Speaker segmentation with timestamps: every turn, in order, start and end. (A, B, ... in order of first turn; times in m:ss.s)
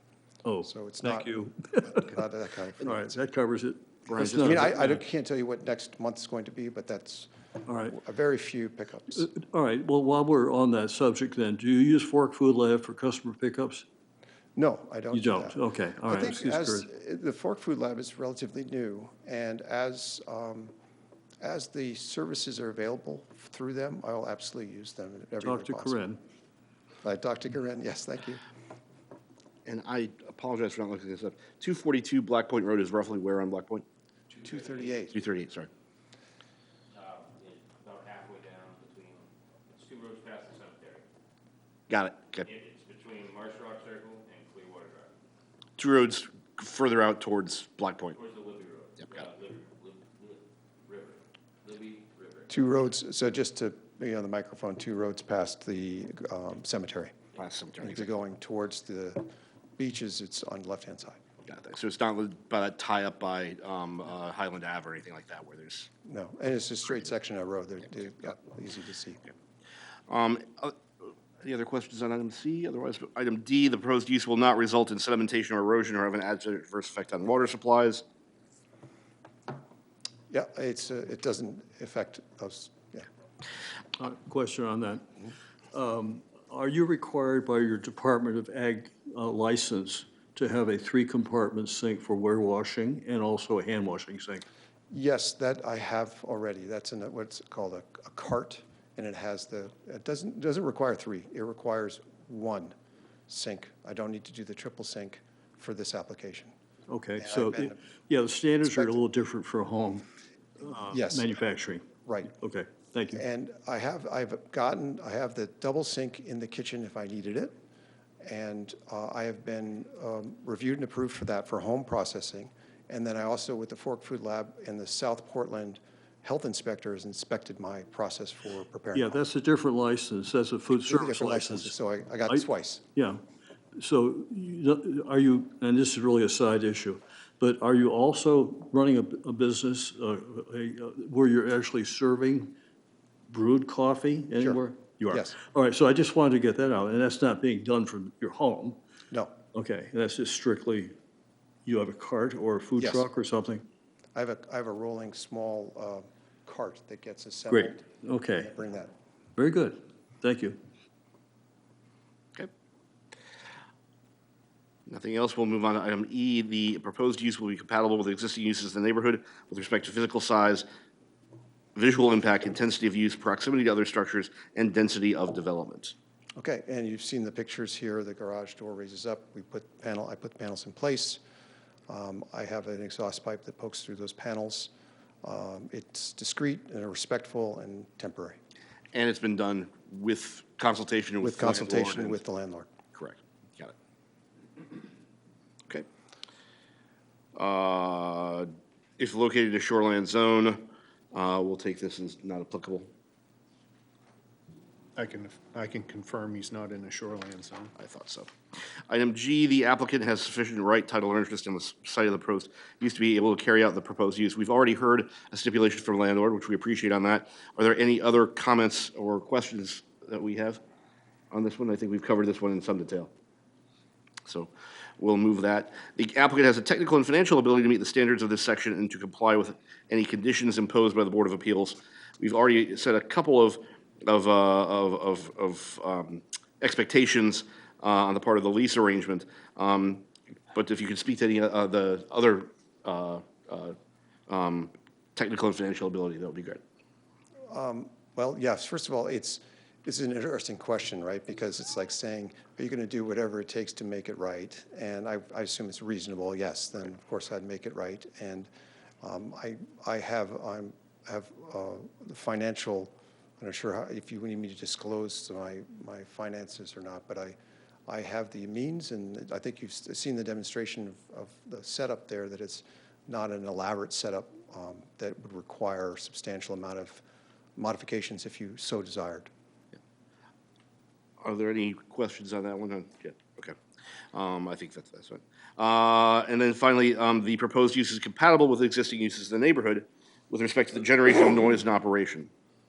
0:00.4-0:02.1 A
0:00.6-0:03.2 B
0:02.8-0:05.0 A
0:04.1-0:07.3 B
0:07.7-0:08.0 A
0:07.9-0:09.3 B
0:09.1-0:13.8 A
0:14.6-0:20.7 B
0:15.1-0:16.9 A
0:21.4-0:26.0 B
0:25.4-0:26.2 A
0:27.0-0:28.4 B
0:29.7-0:33.8 C
0:34.3-0:34.9 D
0:34.4-0:35.2 B
0:35.1-0:35.7 C
0:36.9-0:41.0 D
0:41.9-0:42.5 C
0:42.5-0:45.1 D
0:45.8-0:48.2 C
0:48.1-0:52.6 D
0:52.5-0:57.2 B
0:57.4-0:58.1 C
0:57.8-1:01.2 B
1:01.5-1:05.9 C
1:06.0-1:09.2 B
1:10.1-1:18.0 C
1:20.3-1:23.1 B
1:24.0-1:25.2 A
1:25.7-1:34.4 A
1:34.9-1:42.7 B
1:43.3-1:46.5 B
1:46.9-1:50.1 A
1:47.2-1:47.8 B
1:48.6-1:49.0 B
1:50.6-1:53.2 A
1:50.9-1:51.3 B
1:52.1-1:52.3 B
1:53.1-1:57.6 B
1:58.2-2:09.2 B
2:08.9-2:11.7 A
2:10.9-2:12.8 B
2:12.3-2:13.2 A
2:13.8-2:22.6 A
2:23.3-2:28.8 A
2:24.4-2:25.4 B
2:29.5-2:31.0 A
2:31.7-2:33.7 A
2:32.8-2:33.1 B
2:34.2-2:38.9 B
2:37.5-2:38.5 A
2:39.4-2:40.6 A
2:44.9-2:50.6 C
2:51.8-2:55.9 C
2:56.4-3:01.2 B
3:01.9-3:04.7 B
3:05.2-3:08.4 B
3:08.9-3:12.2 C
3:11.2-3:12.7 B
3:13.0-3:13.7 C
3:17.4-3:22.9 C
3:25.0-3:27.7 E
3:27.8-3:28.3 C
3:28.9-3:40.6 C
3:41.3-3:43.1 C
3:44.3-4:03.8 C
4:04.3-4:06.6 C
4:07.5-4:18.5 B
4:19.0-4:27.4 B
4:27.9-4:37.0 B
4:37.6-4:39.3 B
4:41.2-4:43.6 C
4:44.1-4:52.3 C